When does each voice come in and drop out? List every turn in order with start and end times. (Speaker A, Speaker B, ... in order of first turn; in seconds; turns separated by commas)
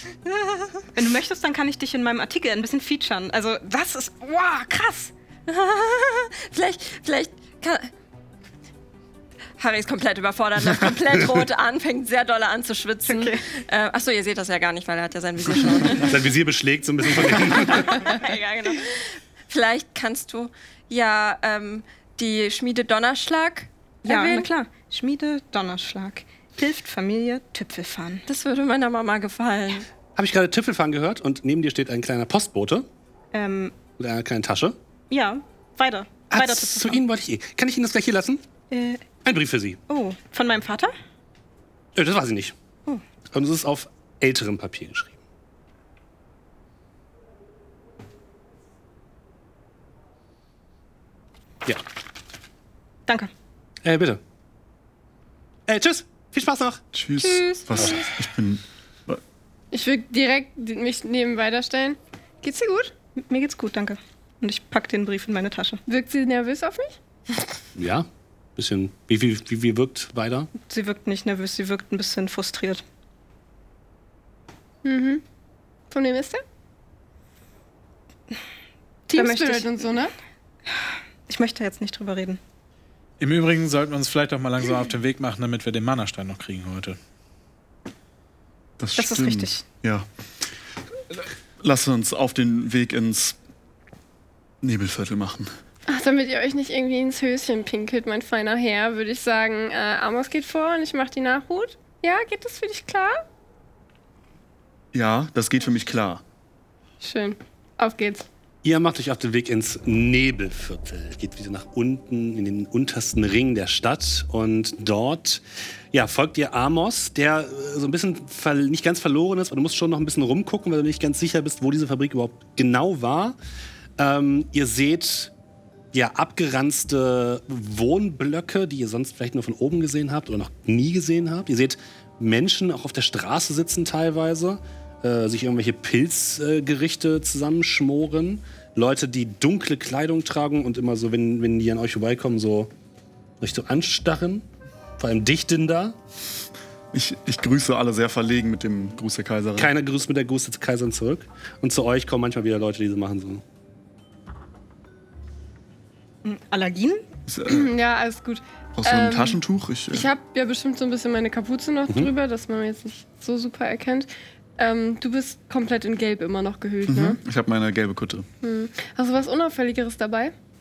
Speaker A: 0.3-0.7, Speaker B: 0.9-5.1, Speaker A: 5.5-7.9, Speaker A: 9.6-16.2, Speaker B: 13.1-13.4, Speaker C: 15.9-18.0, Speaker A: 17.3-24.4, Speaker B: 24.0-28.2, Speaker D: 24.1-24.4, Speaker A: 28.3-29.9, Speaker C: 30.1-32.9, Speaker B: 33.3-33.8, Speaker C: 34.0-34.8, Speaker B: 35.1-37.0, Speaker C: 36.3-38.4, Speaker B: 38.7-39.0, Speaker C: 39.2-39.8, Speaker B: 39.9-40.9, Speaker C: 41.9-42.5, Speaker C: 43.3-45.2, Speaker C: 53.8-54.2, Speaker C: 55.7-56.8, Speaker E: 56.9-59.2, Speaker B: 57.2-57.8, Speaker D: 59.7-62.9, Speaker B: 63.2-65.8, Speaker D: 65.9-67.0, Speaker C: 67.8-70.5, Speaker B: 70.6-72.8, Speaker D: 74.8-75.2, Speaker D: 75.9-76.4, Speaker D: 79.1-80.1, Speaker B: 79.1-79.7, Speaker B: 81.3-82.4, Speaker F: 83.2-87.0, Speaker E: 88.8-90.1, Speaker B: 89.0-89.6, Speaker E: 91.1-93.4, Speaker E: 94.6-95.5, Speaker D: 95.9-103.2, Speaker E: 104.9-106.2, Speaker D: 107.0-108.2, Speaker C: 108.6-123.4, Speaker C: 124.0-125.3, Speaker C: 125.9-142.7, Speaker C: 143.4-144.5, Speaker C: 145.0-146.0, Speaker E: 146.9-149.7, Speaker C: 149.6-153.4, Speaker B: 156.2-157.0, Speaker E: 157.3-157.7, Speaker D: 157.5-159.4, Speaker E: 158.8-160.1, Speaker D: 159.9-167.2, Speaker E: 166.9-168.3, Speaker D: 168.4-170.3